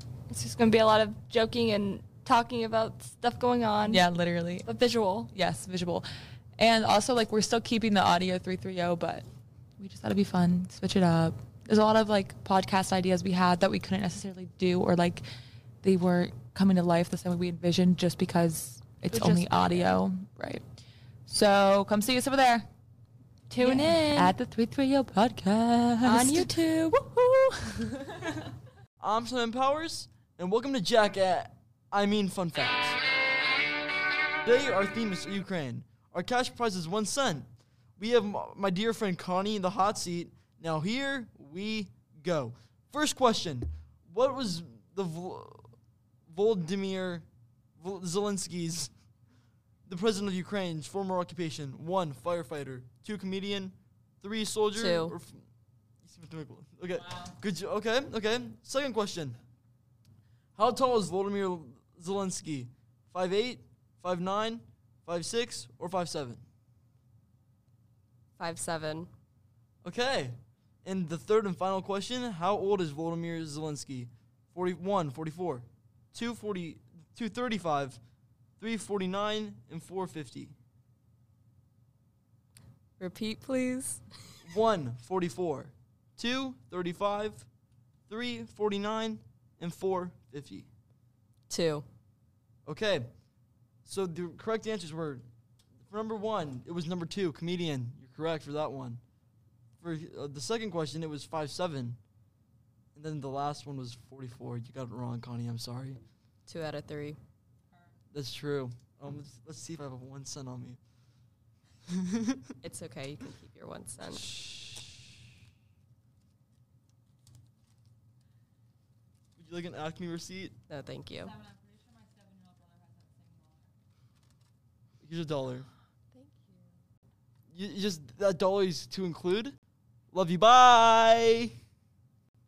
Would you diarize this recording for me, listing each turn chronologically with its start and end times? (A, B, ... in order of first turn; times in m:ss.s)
0:00.3-0:04.0 A
0:03.8-0:04.7 B
0:04.6-0:05.4 A
0:05.3-0:06.0 B
0:06.6-0:09.3 B
0:09.8-0:15.3 B
0:15.8-0:20.6 B
0:19.2-0:19.8 A
0:21.3-0:22.7 B
0:23.5-0:24.3 A
0:23.6-0:27.7 B
0:26.0-0:27.0 A
0:29.0-0:33.0 C
0:34.4-0:45.7 C
0:46.3-0:47.2 C
0:47.8-0:48.9 C
0:49.9-0:55.4 C
0:56.0-0:59.4 C
1:00.6-1:06.4 C
1:08.4-1:09.1 D
1:09.8-1:18.0 C
1:18.6-1:20.6 C
1:23.0-1:23.9 D
1:24.4-1:27.4 C
1:28.1-1:30.7 C
1:31.5-1:31.8 D
1:32.7-1:33.1 C
1:33.9-1:35.2 C
1:35.9-1:39.0 C
1:39.8-1:42.0 C
1:42.9-1:46.0 C
1:46.5-1:47.0 D
1:48.1-1:50.8 C
1:52.0-1:52.3 C
1:53.4-1:54.0 D
1:59.4-2:00.6 C
2:00.8-2:01.2 D
2:05.0-2:05.7 C
2:06.2-2:06.5 D
2:07.5-2:09.6 C
2:10.1-2:11.5 C